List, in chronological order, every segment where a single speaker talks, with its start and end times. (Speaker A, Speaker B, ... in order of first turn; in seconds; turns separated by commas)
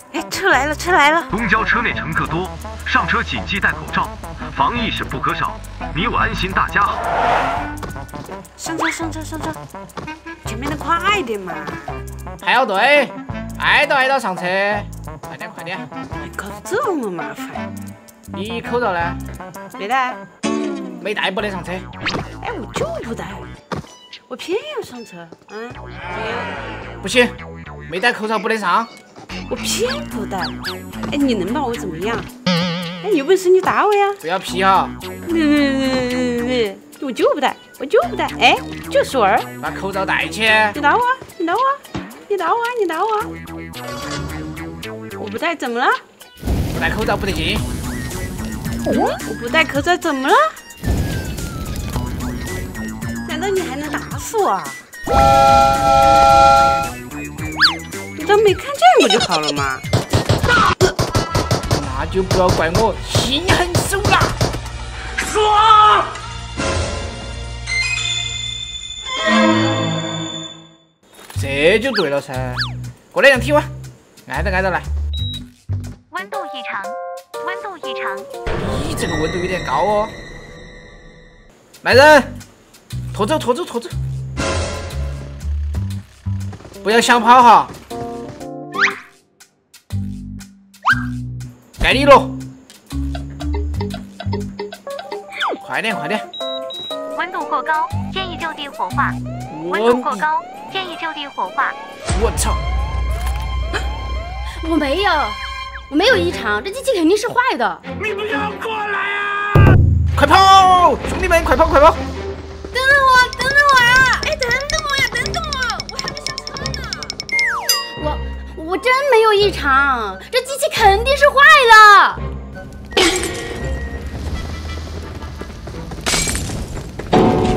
Speaker A: 0.1-1.3, Speaker B: 1.3-7.0, Speaker A: 8.6-9.6, Speaker A: 10.4-12.0, Speaker C: 12.4-15.9, Speaker A: 16.1-17.7, Speaker C: 18.3-19.2, Speaker A: 19.8-20.2, Speaker C: 21.0-21.9, Speaker A: 22.4-23.5, Speaker A: 24.3-26.6, Speaker C: 27.0-27.4, Speaker C: 27.9-28.9, Speaker A: 29.5-32.3, Speaker A: 33.0-34.2, Speaker C: 34.2-35.0, Speaker A: 35.2-39.5, Speaker C: 39.6-40.8, Speaker A: 40.7-43.3, Speaker A: 45.1-46.0, Speaker C: 46.7-47.6, Speaker A: 49.1-50.6, Speaker A: 53.2-54.8, Speaker A: 58.2-59.9, Speaker C: 61.7-64.3, Speaker C: 71.3-73.7, Speaker C: 74.3-74.8, Speaker D: 76.1-78.3, Speaker C: 78.5-80.1, Speaker C: 81.8-82.3, Speaker C: 83.1-83.9, Speaker C: 86.8-87.7, Speaker C: 91.8-92.3, Speaker C: 95.6-96.2, Speaker D: 97.1-101.8, Speaker C: 99.5-100.3, Speaker C: 102.1-102.6, Speaker E: 104.6-107.8, Speaker C: 108.0-109.5, Speaker C: 110.1-112.0, Speaker E: 112.7-114.2, Speaker A: 113.8-117.2, Speaker E: 118.0-122.2